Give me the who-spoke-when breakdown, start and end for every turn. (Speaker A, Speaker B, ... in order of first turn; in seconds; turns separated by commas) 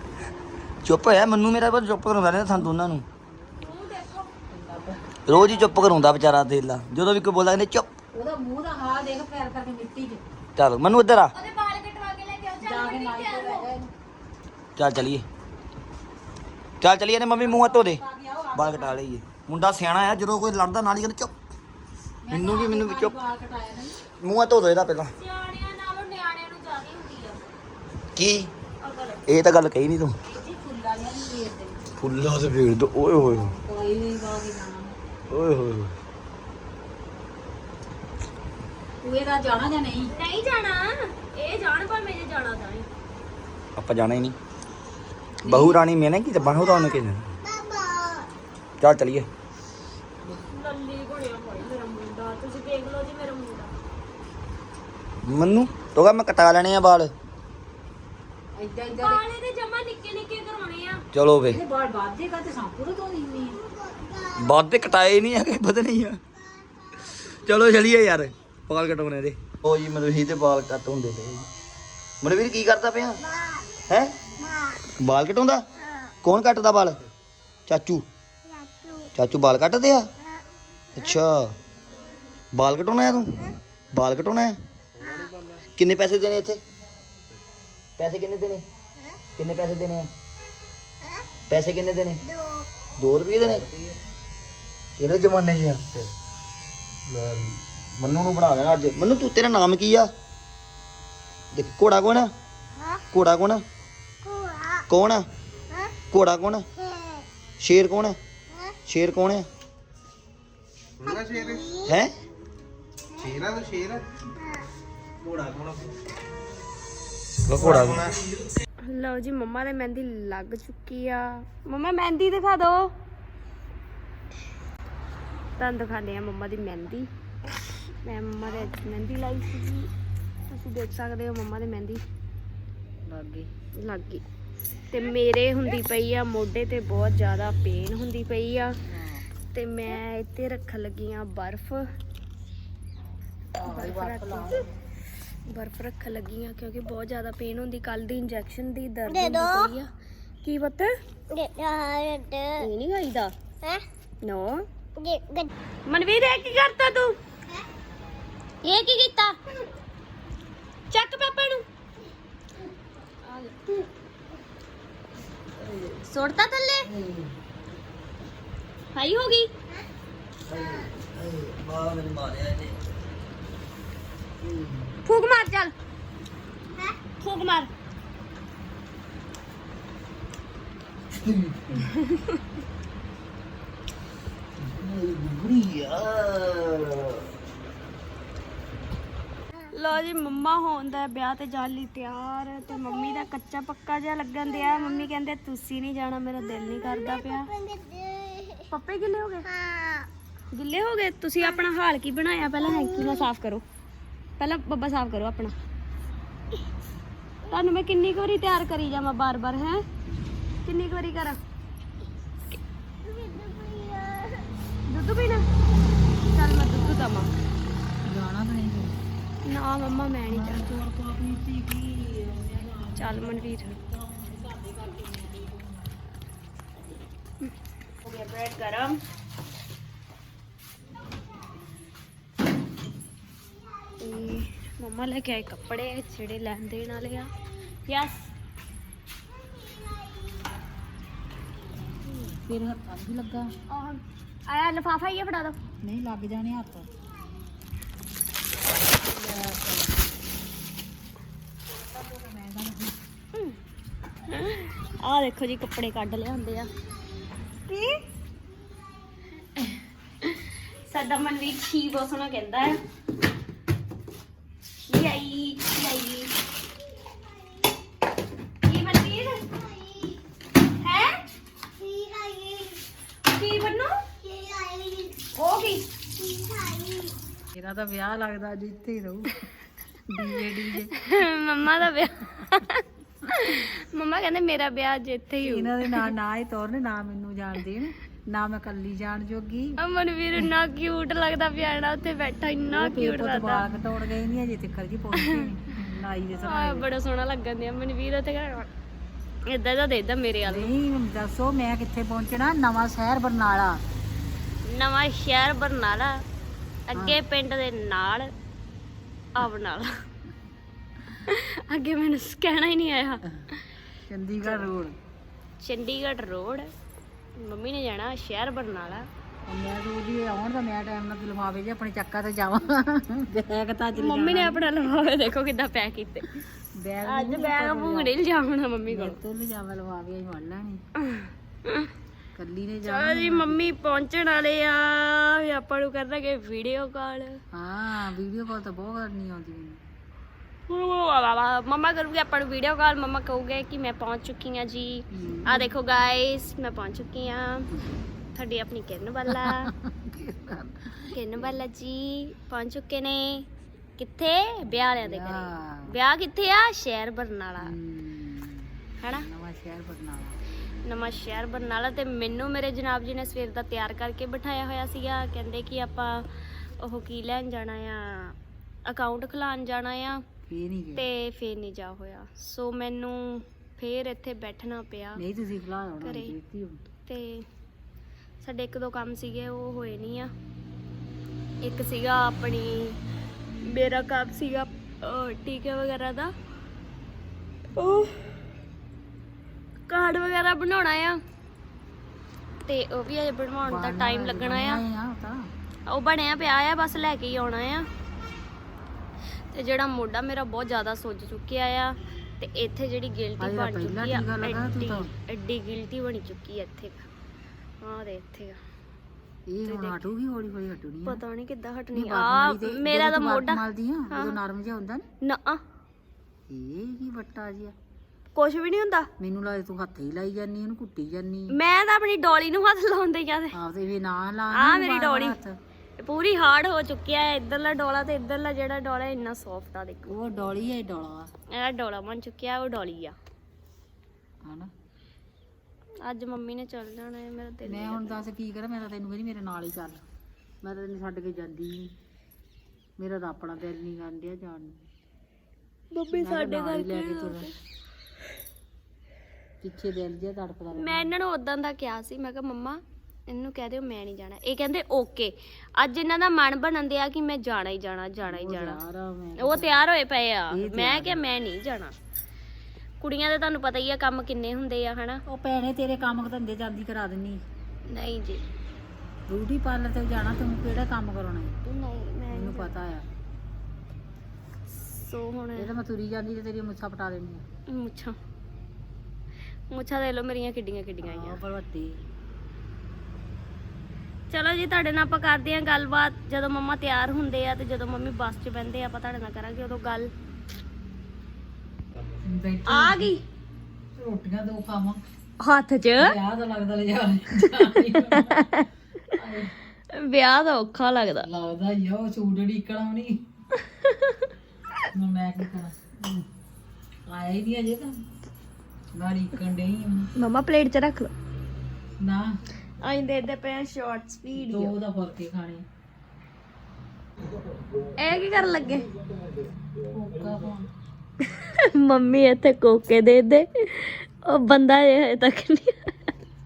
Speaker A: 0.8-3.0, Speaker B: 3.6-4.3, Speaker C: 4.5-5.1, Speaker A: 5.3-7.9, Speaker B: 5.3-6.0, Speaker C: 8.1-10.2, Speaker A: 10.6-11.3, Speaker B: 11.3-13.7, Speaker C: 12.6-13.9, Speaker A: 14.8-15.2, Speaker A: 16.8-18.0, Speaker C: 17.4-19.0, Speaker A: 18.5-21.3, Speaker C: 22.2-24.0, Speaker A: 22.3-23.1, Speaker A: 24.2-25.1, Speaker B: 25.2-27.5, Speaker A: 28.1-28.5, Speaker B: 28.8-29.2, Speaker A: 29.3-30.2, Speaker C: 30.3-31.9, Speaker A: 32.0-33.5, Speaker C: 33.2-35.0, Speaker A: 35.3-35.9, Speaker C: 39.0-40.1, Speaker B: 40.1-42.9, Speaker A: 43.8-44.4, Speaker A: 45.4-47.3, Speaker C: 45.5-45.7, Speaker D: 46.5-48.3, Speaker A: 48.8-49.3, Speaker B: 50.2-53.7, Speaker A: 55.2-57.1, Speaker C: 58.5-59.2, Speaker B: 59.0-61.0, Speaker A: 61.1-61.6, Speaker C: 61.5-63.6, Speaker D: 63.9-64.4, Speaker A: 64.3-66.2, Speaker A: 67.1-71.5, Speaker A: 72.2-73.2, Speaker A: 73.9-74.1, Speaker D: 74.5-74.8, Speaker A: 75.0-75.6, Speaker A: 76.2-77.0, Speaker A: 77.7-78.0, Speaker D: 78.5-79.1, Speaker A: 79.1-80.1, Speaker A: 81.0-81.5, Speaker A: 82.5-84.6, Speaker A: 85.7-86.6, Speaker A: 88.0-88.6, Speaker A: 89.4-90.1, Speaker A: 91.5-92.2, Speaker A: 93.0-93.7, Speaker A: 95.0-96.1, Speaker A: 97.0-100.1, Speaker A: 101.5-102.3, Speaker A: 103.1-103.6, Speaker D: 104.4-104.7, Speaker A: 104.9-105.2, Speaker A: 106.1-106.6, Speaker A: 107.6-108.2, Speaker A: 108.8-109.5, Speaker D: 111.0-111.8, Speaker A: 111.8-112.1, Speaker D: 113.2-113.5, Speaker A: 117.5-118.2, Speaker B: 118.8-122.9, Speaker B: 125.6-127.1, Speaker B: 128.0-129.9, Speaker B: 130.5-132.0, Speaker C: 133.1-133.5, Speaker B: 133.8-134.2, Speaker B: 134.9-138.8, Speaker C: 138.9-139.3, Speaker B: 139.5-141.9, Speaker C: 143.6-144.7, Speaker B: 143.6-144.6, Speaker B: 145.5-149.9, Speaker D: 149.1-149.7, Speaker B: 150.4-150.9, Speaker D: 151.3-152.7, Speaker B: 152.6-153.3, Speaker B: 154.2-154.7, Speaker D: 154.9-155.5, Speaker B: 155.9-157.2, Speaker B: 158.6-159.4, Speaker B: 160.9-161.6, Speaker B: 163.2-163.7, Speaker A: 165.6-166.0, Speaker B: 166.1-166.9, Speaker A: 166.9-167.3, Speaker B: 168.9-169.5, Speaker A: 170.5-172.9, Speaker A: 174.5-174.8, Speaker B: 175.1-175.7, Speaker B: 177.2-177.7, Speaker A: 181.1-181.9, Speaker A: 184.6-187.2, Speaker B: 189.7-197.5, Speaker D: 194.6-195.0, Speaker D: 196.8-198.6, Speaker B: 198.7-199.5, Speaker D: 199.5-200.1, Speaker B: 200.5-203.6, Speaker D: 202.8-203.2, Speaker B: 204.4-205.5, Speaker B: 207.5-209.8, Speaker B: 210.6-211.4, Speaker D: 213.0-214.5, Speaker B: 214.9-215.4, Speaker B: 216.3-217.3, Speaker C: 218.0-219.0, Speaker B: 219.4-220.7, Speaker C: 220.3-226.0, Speaker B: 222.9-223.7, Speaker B: 228.0-229.0, Speaker B: 234.0-237.3, Speaker B: 237.9-238.3, Speaker C: 242.2-243.5, Speaker B: 243.7-245.6, Speaker C: 245.8-246.9, Speaker C: 249.1-250.0, Speaker C: 251.7-253.0, Speaker B: 254.3-256.7, Speaker B: 260.9-262.8, Speaker B: 264.9-266.3, Speaker B: 268.6-269.4, Speaker D: 269.7-270.0, Speaker B: 270.8-271.2, Speaker D: 271.8-272.8, Speaker B: 273.2-274.0, Speaker D: 274.2-275.2, Speaker B: 275.3-275.9, Speaker D: 276.2-277.1, Speaker C: 277.5-279.4, Speaker C: 280.1-281.0, Speaker B: 281.0-286.1, Speaker C: 285.4-289.8, Speaker B: 289.8-293.6, Speaker C: 292.7-296.9, Speaker B: 295.1-295.5, Speaker B: 296.4-298.7, Speaker B: 299.4-300.7, Speaker C: 300.4-303.9, Speaker B: 304.6-306.2, Speaker B: 306.9-308.3, Speaker C: 306.9-307.2, Speaker B: 309.4-309.9, Speaker B: 311.2-313.6, Speaker C: 314.1-315.0, Speaker B: 315.6-316.7, Speaker B: 317.4-319.1, Speaker C: 319.5-324.6, Speaker B: 323.9-326.4, Speaker C: 326.8-328.1, Speaker B: 327.0-329.2, Speaker C: 328.9-330.8, Speaker B: 331.1-331.9, Speaker C: 332.4-333.6, Speaker B: 332.8-337.4, Speaker C: 337.5-339.8, Speaker B: 340.7-347.7, Speaker C: 345.1-345.7, Speaker B: 348.3-349.7, Speaker C: 349.3-351.6, Speaker B: 351.1-353.5, Speaker B: 354.0-357.8, Speaker C: 354.7-356.0, Speaker C: 357.6-360.4, Speaker B: 359.0-359.3, Speaker B: 360.8-366.3, Speaker B: 366.8-370.2, Speaker C: 370.5-371.1, Speaker B: 370.9-375.2, Speaker C: 375.1-376.8, Speaker B: 376.0-376.3, Speaker B: 377.1-377.4, Speaker B: 378.4-380.3, Speaker B: 381.6-383.0, Speaker B: 383.6-386.3, Speaker B: 387.8-388.1, Speaker B: 389.9-391.2, Speaker B: 392.6-394.8, Speaker C: 393.6-395.5, Speaker B: 395.9-397.9, Speaker B: 399.5-407.0, Speaker C: 403.4-405.1, Speaker B: 407.8-408.6, Speaker C: 409.5-411.2, Speaker B: 409.6-410.1, Speaker B: 411.1-414.4, Speaker C: 411.9-415.1, Speaker B: 415.2-415.6, Speaker C: 416.5-417.7, Speaker B: 418.3-419.1, Speaker C: 419.2-421.6, Speaker B: 421.5-423.5, Speaker C: 423.5-425.6, Speaker B: 424.5-425.4, Speaker B: 426.0-430.5, Speaker C: 430.1-431.3, Speaker B: 431.5-433.1, Speaker C: 434.4-434.7, Speaker B: 436.0-438.2, Speaker C: 437.6-440.0, Speaker C: 440.6-441.9, Speaker C: 443.0-444.9, Speaker B: 445.9-447.5, Speaker C: 446.1-447.5, Speaker C: 449.6-451.1, Speaker B: 450.7-458.8, Speaker C: 458.2-459.9, Speaker B: 459.4-461.9, Speaker C: 460.5-461.2, Speaker B: 463.0-465.2, Speaker C: 465.3-467.4, Speaker B: 467.9-468.4, Speaker C: 469.3-471.6, Speaker B: 471.6-472.7, Speaker C: 472.3-473.1, Speaker B: 474.7-475.7, Speaker C: 475.6-477.4, Speaker B: 477.7-478.2, Speaker B: 479.7-481.4, Speaker C: 481.0-482.0, Speaker B: 484.3-490.1, Speaker C: 492.2-493.1, Speaker B: 492.6-493.2, Speaker C: 493.9-495.0, Speaker B: 495.4-496.1, Speaker C: 496.0-498.5, Speaker B: 498.1-498.7, Speaker C: 499.1-499.5, Speaker B: 499.9-501.3, Speaker C: 501.2-503.2, Speaker B: 503.8-504.2, Speaker C: 504.9-506.2, Speaker C: 507.1-508.1, Speaker C: 508.9-510.1, Speaker B: 510.1-511.1, Speaker C: 512.0-512.4, Speaker B: 512.8-514.7, Speaker C: 514.3-515.6, Speaker B: 518.0-518.9, Speaker C: 519.8-520.7, Speaker B: 521.5-525.9